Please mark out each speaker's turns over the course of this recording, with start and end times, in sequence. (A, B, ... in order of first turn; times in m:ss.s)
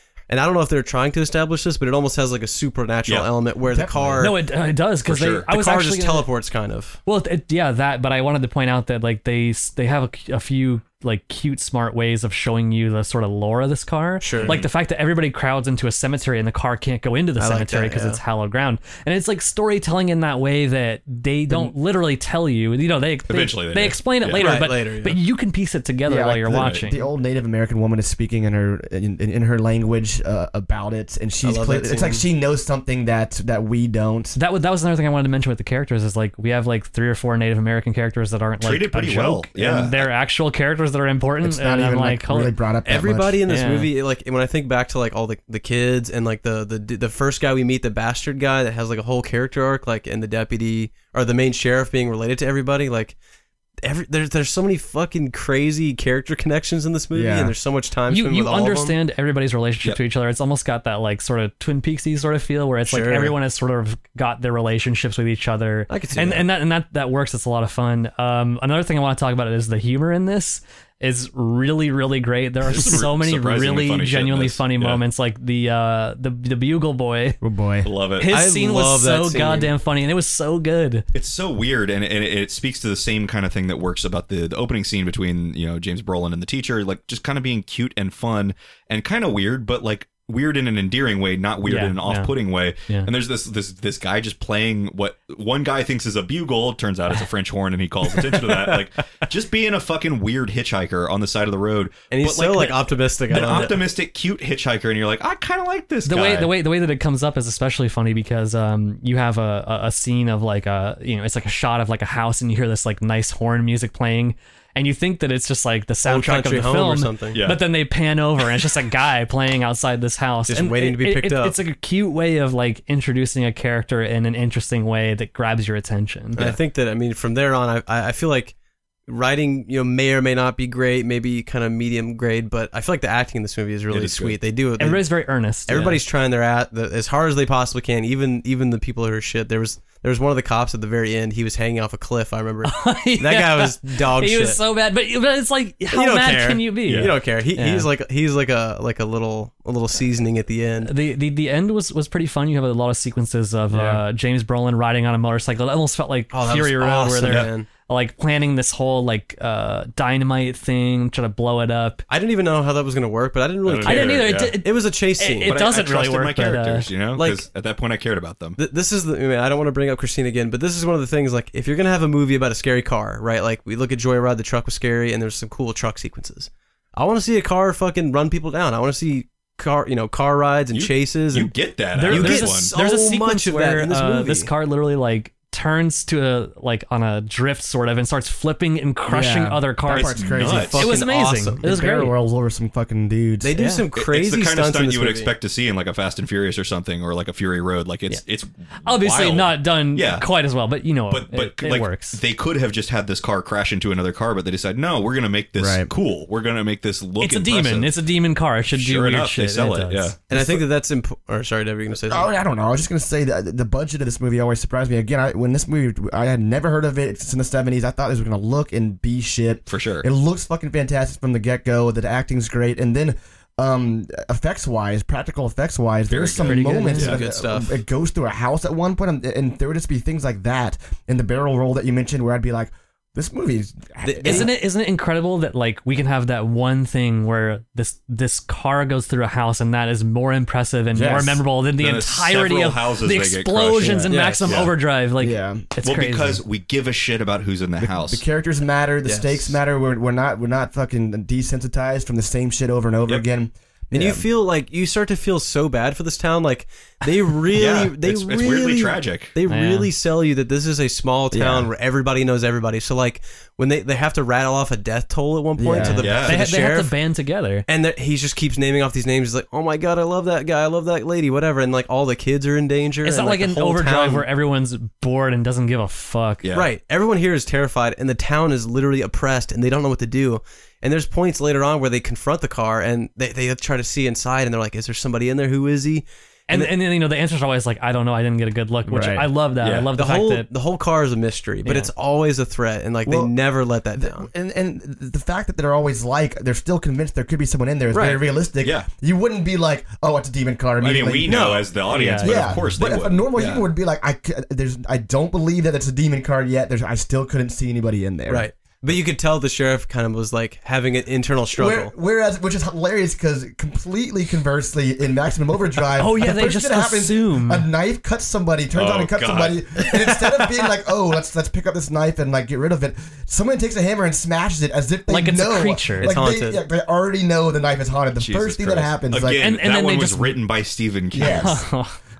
0:00.3-0:04.4 A
0:03.6-0:04.3 B
0:04.2-0:06.3 C
0:05.0-0:05.5 D
0:05.5-0:07.0 A
0:07.0-0:27.0 C
0:14.2-0:14.6 A
0:14.3-0:14.7 D
0:17.4-0:18.2 A
0:21.5-0:21.7 B
0:23.3-0:24.4 D
0:24.4-0:25.2 A
0:26.0-0:34.4 B
0:31.4-0:32.2 A
0:34.3-0:42.6 C
0:38.6-0:40.1 D
0:41.4-0:43.4 B
0:42.8-0:53.2 A
0:43.4-0:43.9 C
0:53.8-0:59.0 A
0:57.1-0:57.5 B
0:58.1-1:17.4 C
1:02.9-1:03.3 A
1:05.9-1:06.4 A
1:12.6-1:15.0 D
1:17.4-1:17.9 B
1:17.8-1:18.3 D
1:18.2-1:21.0 C
1:18.3-1:19.7 A
1:21.1-1:46.5 D
1:31.6-1:32.3 C
1:32.8-1:33.1 C
1:38.1-1:38.9 A
1:42.1-1:43.8 A
1:43.4-1:43.8 C
1:46.0-2:06.4 C
1:56.0-1:57.4 A
1:57.3-1:57.6 D
2:00.5-2:01.6 A
2:06.4-2:08.5 A
2:09.1-2:15.0 A
2:13.9-2:14.4 D
2:14.8-2:16.0 C
2:15.7-2:24.6 A
2:22.6-2:27.9 C
2:25.9-2:30.9 A
2:26.8-2:27.1 D
2:30.8-2:42.0 C
2:33.7-2:34.0 B
2:36.3-2:37.7 A
2:42.1-2:45.5 A
2:43.6-2:44.6 D
2:43.8-2:46.9 C
2:45.4-2:48.6 D
2:47.2-2:47.4 A
2:48.6-3:04.5 A
3:00.7-3:02.7 D
3:01.9-3:12.1 C
3:09.1-3:10.9 B
3:09.9-3:10.8 D
3:10.3-3:11.6 A
3:11.6-3:13.5 B
3:13.4-3:15.3 A
3:13.5-3:13.8 C
3:14.0-3:20.3 D
3:18.8-3:22.2 C
3:21.1-3:27.9 D
3:25.6-3:25.9 B
3:27.2-3:30.2 C
3:28.7-3:30.2 D
3:30.3-3:32.3 A
3:30.3-3:30.6 B
3:32.1-3:54.5 B
3:39.7-3:40.1 D
3:46.1-3:47.2 D
3:46.4-3:47.1 C
3:47.0-3:47.8 A
3:54.0-3:54.5 A
3:54.2-4:06.4 C
4:00.9-4:01.4 B
4:01.8-4:04.7 D
4:03.8-4:04.1 B
4:04.1-4:04.6 A
4:05.2-4:05.7 B
4:05.8-4:08.2 D
4:07.8-4:14.2 B
4:09.0-4:09.6 A
4:13.9-4:26.9 A
4:17.5-4:19.3 D
4:19.5-4:19.9 C
4:21.3-4:21.7 B
4:25.6-4:26.0 B
4:25.8-4:27.6 C
4:26.0-4:26.4 D
4:27.6-4:34.2 A
4:33.0-4:36.5 C
4:36.4-4:36.7 D
4:36.5-4:46.7 A
4:46.5-4:50.5 C
4:48.8-4:49.3 B
4:49.6-4:49.9 D
4:50.0-4:54.3 A
4:51.6-4:51.9 C
4:53.0-4:53.3 B
4:54.0-5:08.5 B
4:57.9-4:58.2 A
4:58.6-4:58.9 D
5:00.8-5:03.7 D
5:01.3-5:01.7 A
5:01.9-5:02.6 C
5:08.3-5:11.9 A
5:11.6-5:29.4 B
5:16.0-5:17.7 C
5:18.7-5:19.6 D
5:25.1-5:26.2 C
5:26.0-5:26.6 A
5:28.2-5:31.5 D
5:29.4-5:30.4 C
5:31.1-5:31.6 B
5:31.1-5:32.0 C